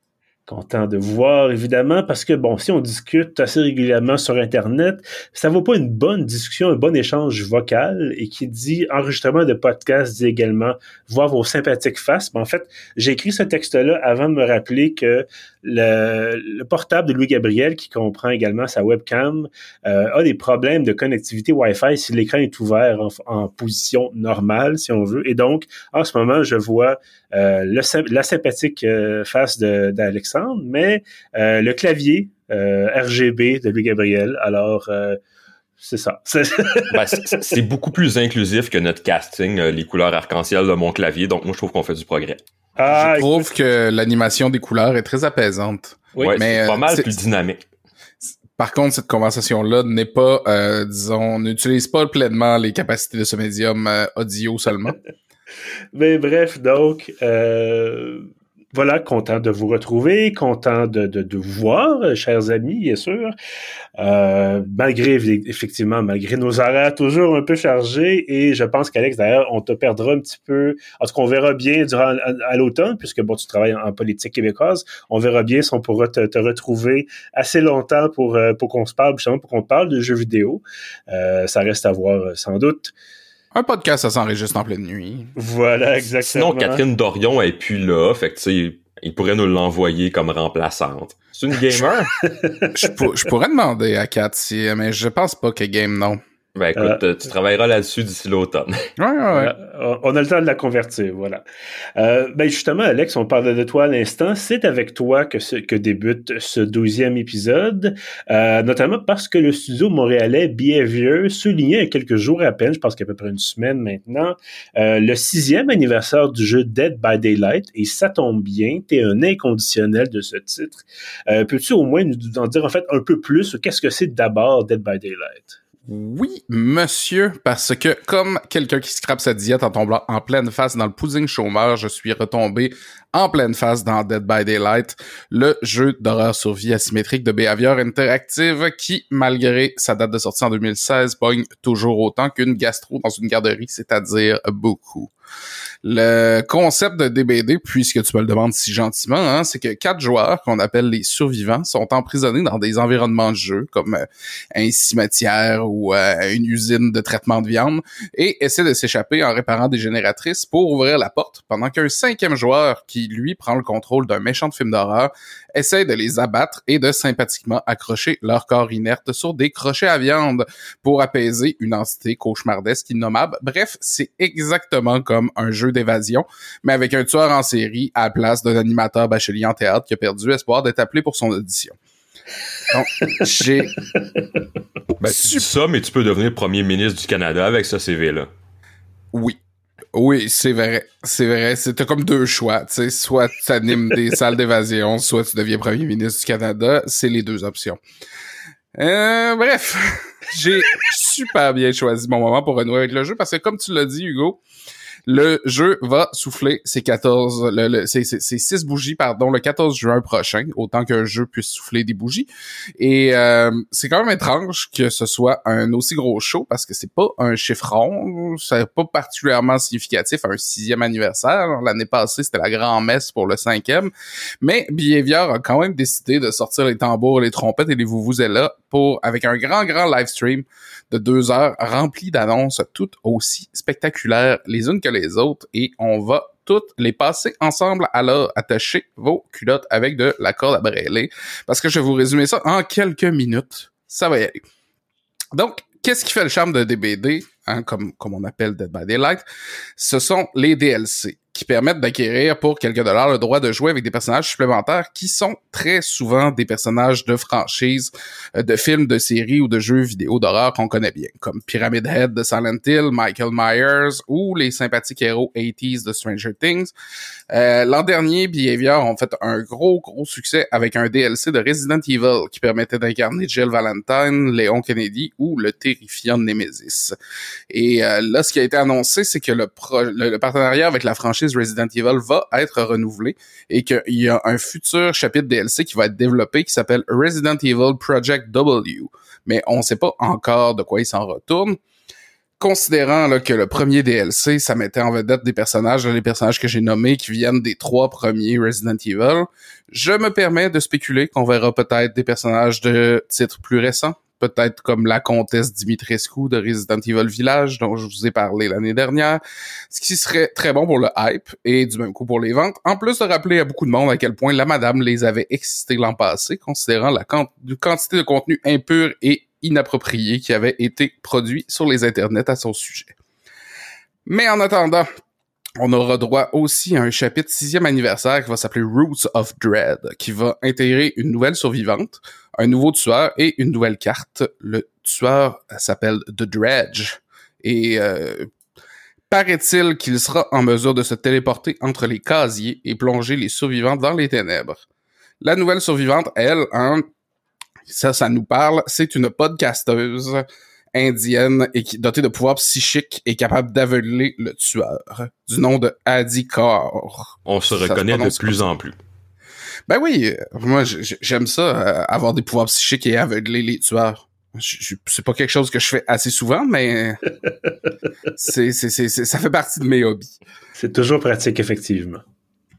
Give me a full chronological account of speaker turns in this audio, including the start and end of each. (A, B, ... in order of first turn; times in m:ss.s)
0:00.5-0:35.2 A
0:35.8-0:37.4 A
0:36.9-0:42.4 B
0:42.8-0:43.4 A
0:42.9-0:47.1 C
0:46.2-0:47.6 B
0:48.2-0:55.0 C
0:55.9-1:03.3 A
1:04.0-1:22.9 A
1:23.5-1:25.3 C
1:25.4-1:26.8 A
1:26.2-1:32.1 B
1:32.2-1:32.9 A
1:32.7-1:36.2 C
1:36.6-1:38.9 B
1:39.0-1:39.5 C
1:39.3-1:41.4 A
1:42.0-2:05.6 A
2:05.9-2:25.1 C
2:25.8-3:01.8 C
3:02.7-3:03.8 C
3:05.0-3:08.3 B
3:05.0-3:05.4 C
3:09.1-3:09.4 C
3:09.9-3:17.8 C
3:18.7-3:24.4 C
3:25.0-3:32.3 C
3:32.8-4:04.4 C
4:05.3-4:09.2 C
4:09.8-4:26.7 C
4:27.3-4:36.9 C
4:37.5-4:51.6 C
4:52.4-5:22.9 C
5:24.0-5:24.9 C
5:25.6-5:38.3 C
5:39.1-5:44.6 C
5:45.2-5:46.8 C
5:47.7-5:58.4 C
5:57.2-5:58.8 B
5:59.7-6:07.0 C
6:08.2-6:10.1 C
6:10.6-6:12.0 A